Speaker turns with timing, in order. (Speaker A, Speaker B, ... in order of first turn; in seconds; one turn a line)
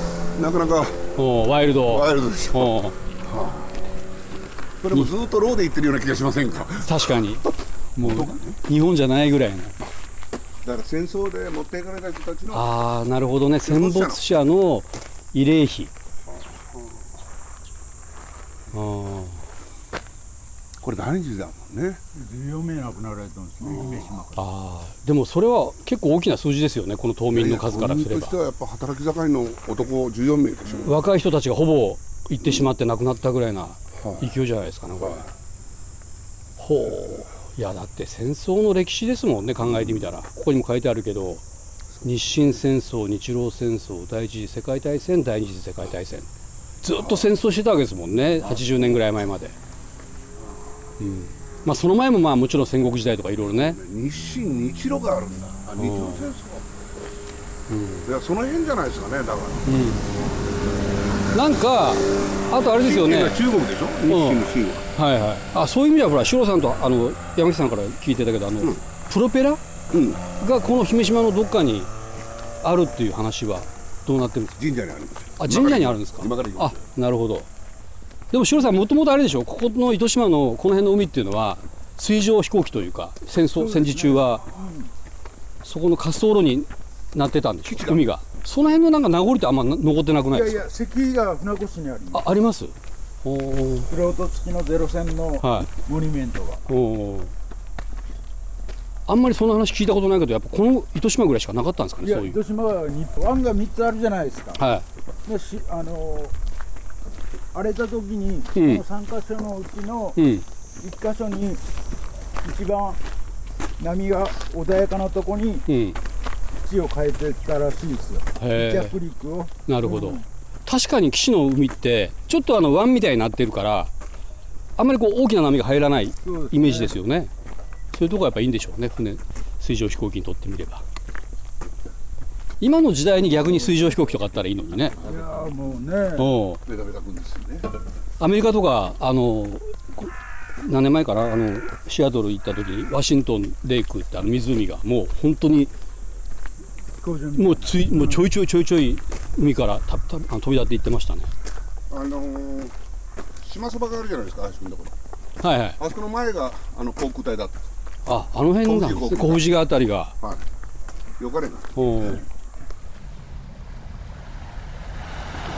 Speaker A: 0.3-1.0
Speaker B: 1.1-3.0
Speaker A: 1.8-3.8
Speaker A: 4.8-8.6
Speaker B: 6.8-9.8
Speaker A: 10.6-12.8
Speaker B: 12.5-15.9
Speaker A: 13.6-14.2
Speaker A: 16.3-17.1
Speaker B: 18.7-19.4
Speaker A: 20.8-22.0
Speaker C: 22.1-24.5
Speaker A: 23.6-24.0
Speaker B: 23.7-28.4
Speaker A: 27.3-31.0
Speaker B: 30.8-35.2
Speaker A: 34.0-34.3
Speaker B: 36.6-41.4
Speaker B: 42.0-46.3
Speaker B: 46.8-49.5
Speaker A: 46.9-47.3
Speaker A: 48.4-49.0
Speaker B: 51.0-53.8
Speaker A: 53.5-56.6
Speaker B: 55.8-56.3
Speaker B: 57.7-58.1
Speaker A: 58.0-59.7
Speaker B: 59.6-60.1
Speaker B: 61.3-63.4
Speaker A: 62.7-64.9
Speaker B: 64.0-69.6
Speaker A: 69.9-70.2
Speaker B: 70.4-71.9
Speaker B: 72.6-74.6
Speaker A: 74.6-76.8
Speaker B: 75.4-77.5
Speaker B: 78.3-84.4
Speaker C: 83.5-84.9
Speaker B: 85.6-90.6
Speaker A: 87.6-88.0
Speaker C: 90.3-92.3
Speaker B: 92.1-93.9
Speaker C: 93.9-96.6
Speaker B: 95.4-95.7
Speaker B: 96.7-97.3
Speaker B: 99.1-102.4
Speaker C: 102.0-104.6
Speaker B: 104.6-104.8
Speaker C: 105.2-106.3
Speaker C: 107.5-110.2
Speaker B: 108.5-108.8
Speaker B: 110.2-110.4
Speaker C: 110.8-111.6
Speaker C: 112.4-113.0
Speaker C: 113.8-115.7
Speaker B: 115.7-116.0
Speaker C: 116.6-120.2
Speaker B: 118.4-118.9
Speaker B: 119.7-123.9
Speaker B: 124.8-127.3
Speaker C: 126.2-127.0
Speaker B: 127.9-130.8
Speaker B: 132.6-135.0
Speaker A: 135.0-135.3
Speaker C: 135.0-136.3
Speaker B: 136.2-136.6
Speaker A: 136.6-137.7
Speaker B: 138.2-145.7
Speaker C: 147.0-148.3
Speaker B: 147.3-151.3
Speaker A: 151.9-152.7
Speaker A: 153.4-154.9
Speaker B: 155.4-155.8
Speaker A: 155.8-157.7
Speaker B: 158.1-160.2
Speaker A: 158.6-159.6
Speaker A: 161.2-161.8
Speaker B: 161.8-162.2